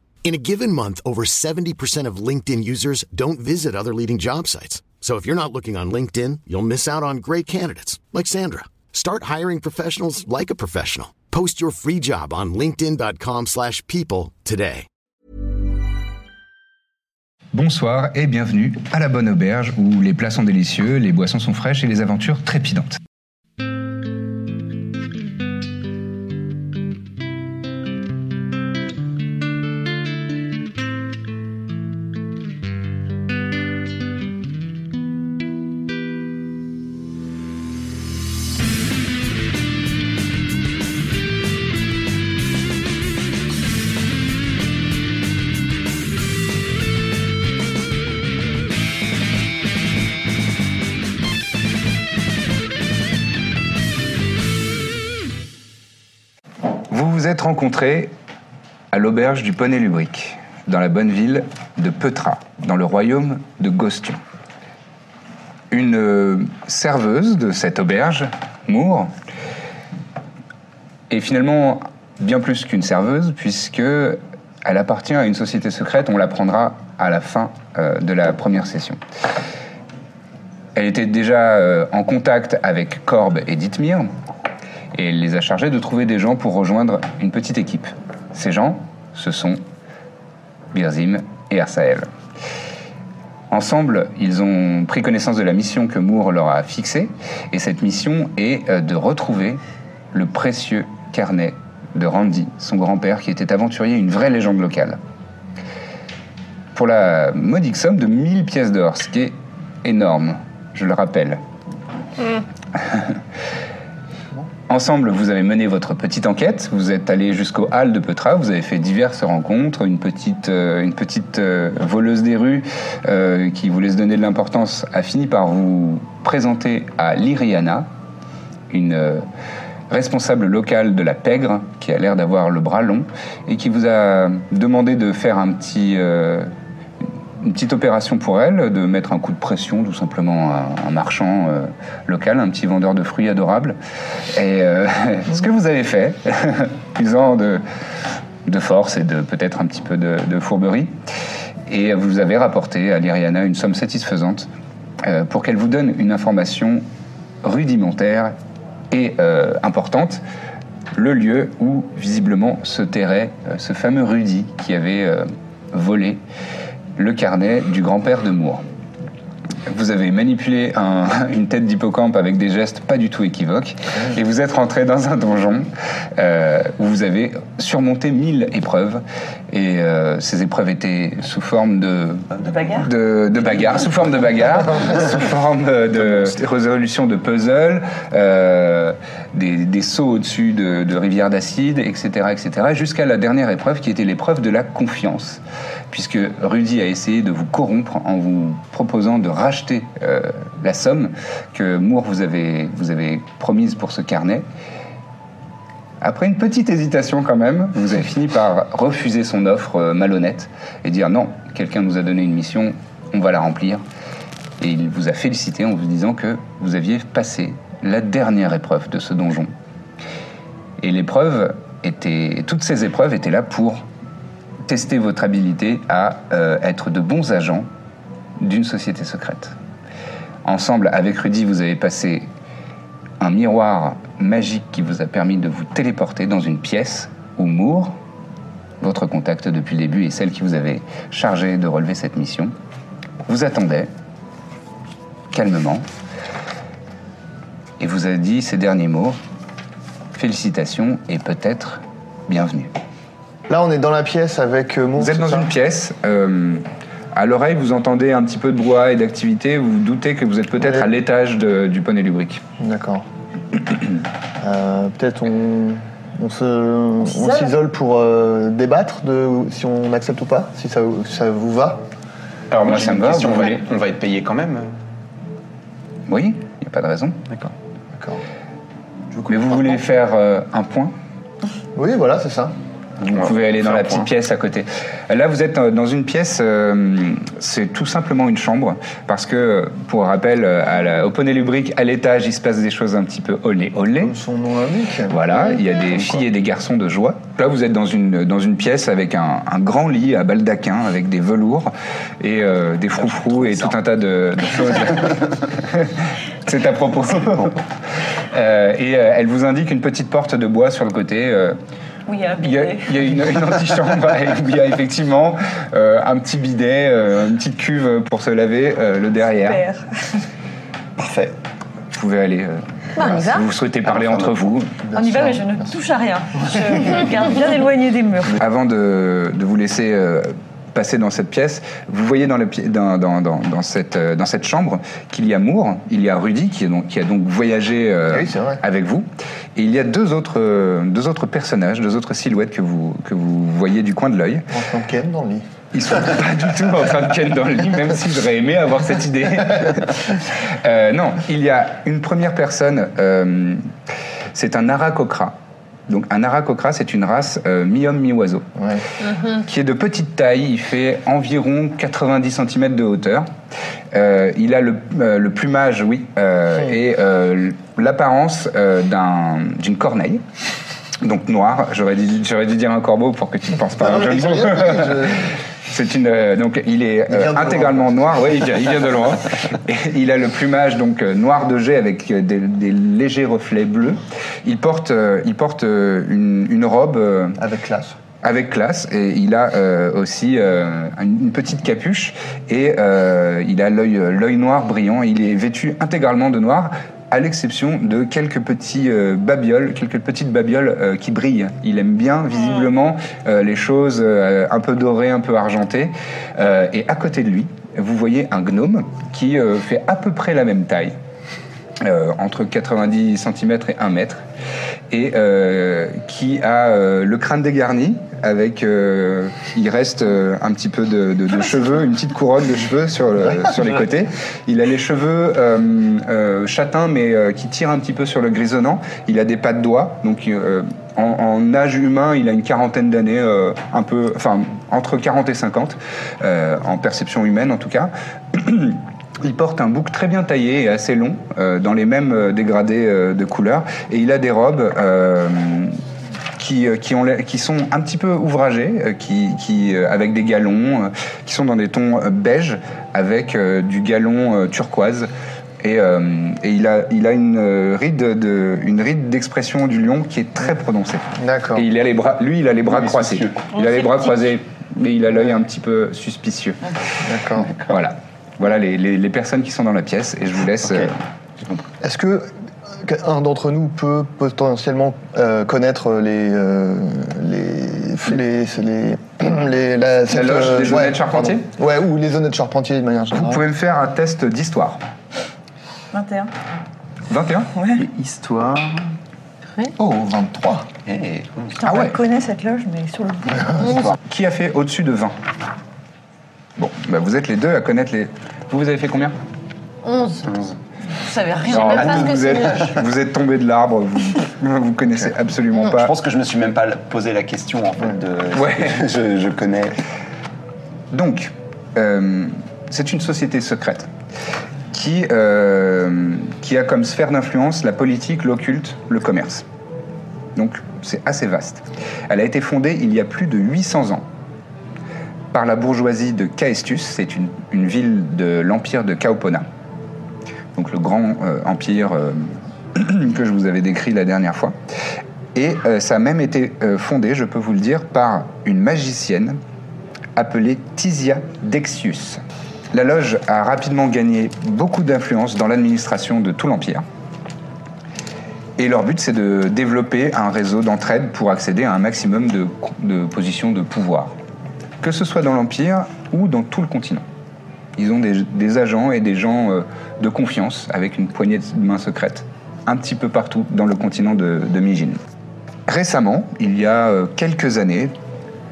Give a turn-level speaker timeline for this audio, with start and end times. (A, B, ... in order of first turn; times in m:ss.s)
0:00.2-0:14.9 A
0:17.5-0:23.0 B
0:56.9-0:58.1 B
0:58.9-1:04.2 B
1:05.7-1:09.1 B
1:11.1-1:19.0 B
1:20.8-1:24.1 B
1:24.9-1:29.6 B
1:30.7-1:32.1 B
1:33.5-1:39.6 B
1:40.1-1:45.0 B
1:46.7-1:51.4 B
1:52.8-1:53.2 B
1:54.7-2:07.9 B
2:08.7-2:09.3 B
2:09.9-2:16.5 B
2:17.4-2:23.8 B
2:24.3-2:27.6 B
2:28.4-2:30.9 B
2:31.7-2:34.5 B
2:35.0-2:36.8 B
2:37.4-2:38.3 B
2:38.9-2:40.2 B
2:40.9-2:46.2 B
2:47.0-2:48.6 B
2:49.7-3:24.4 B
3:02.3-3:02.6 C
3:02.5-3:02.9 D
3:26.0-3:33.8 B
3:34.6-3:39.5 B
3:40.8-3:43.8 B
3:44.7-3:47.7 B
3:48.4-3:49.6 B
3:50.4-3:52.3 B
3:53.2-3:57.9 B
3:58.8-4:02.5 B
4:03.3-4:03.9 B
4:05.3-4:05.9 B
4:07.8-4:09.2 B
4:10.1-4:12.7 B
4:13.5-4:15.5 E
4:15.0-4:22.4 B
4:20.6-4:20.9 E
4:22.6-4:23.1 E
4:24.4-4:31.8 E
4:27.1-4:27.5 D
4:32.5-4:34.8 C
4:32.6-4:33.6 B
4:36.1-4:37.2 B
4:37.9-4:38.2 E
4:39.1-4:39.8 E
4:39.3-4:40.9 B
4:41.8-4:42.5 E
4:43.0-4:54.2 B
4:43.1-4:44.1 C
4:54.0-4:55.2 E
4:55.1-5:07.6 B
5:08.3-5:11.6 B
5:12.1-5:13.0 D
5:12.4-5:19.6 B
5:19.4-5:20.2 D
5:21.0-5:21.3 C
5:21.9-5:24.7 B
5:23.0-5:23.5 F
5:23.9-5:24.3 C
5:24.8-5:25.7 E
5:25.0-5:28.4 D
5:28.4-5:44.5 B
5:38.1-5:38.6 E
5:44.5-5:45.5 E
5:45.7-5:53.6 B
5:54.3-5:55.4 B
5:55.9-5:58.5 B
5:58.6-5:58.8 E
5:59.0-5:59.4 F
5:59.3-6:03.3 B
6:03.9-6:10.2 B
6:11.0-6:27.4 B
6:13.8-6:15.4 E
6:17.1-6:18.2 E
6:27.4-6:28.0 E
6:28.2-6:51.0 B
6:51.8-6:54.2 B
6:54.9-7:25.8 B
7:26.4-7:35.1 B
7:35.6-7:46.6 B
7:41.2-7:41.7 E
7:42.7-7:43.5 C
7:43.6-7:44.2 D
7:47.0-7:47.5 E
7:47.6-7:50.9 B
7:51.8-8:03.4 E
8:00.1-8:01.5 B
8:03.1-8:04.8 B
8:05.9-8:06.3 D
8:07.1-8:07.5 B
8:07.6-8:07.8 D
8:07.7-8:08.9 C
8:09.8-8:10.7 E
8:10.9-8:11.6 C
8:11.6-8:13.7 D
8:11.6-8:12.0 B
8:13.6-8:13.9 C
8:14.1-8:15.2 B
8:16.6-8:19.2 B
8:19.8-8:20.3 F
8:20.2-8:20.6 C
8:21.0-8:22.3 D
8:21.4-8:22.7 F
8:21.5-8:25.9 B
8:25.7-8:29.8 C
8:28.3-8:28.9 B
8:30.9-8:33.9 B
8:34.7-8:39.4 B
8:40.4-8:44.0 B
8:45.3-8:49.5 B
8:50.6-8:54.6 B
8:55.4-8:59.4 B
9:00.2-9:02.2 B
9:02.7-9:06.8 B
9:08.6-9:14.1 B
9:14.8-9:17.0 B
9:17.8-9:25.0 B
9:25.7-9:27.9 B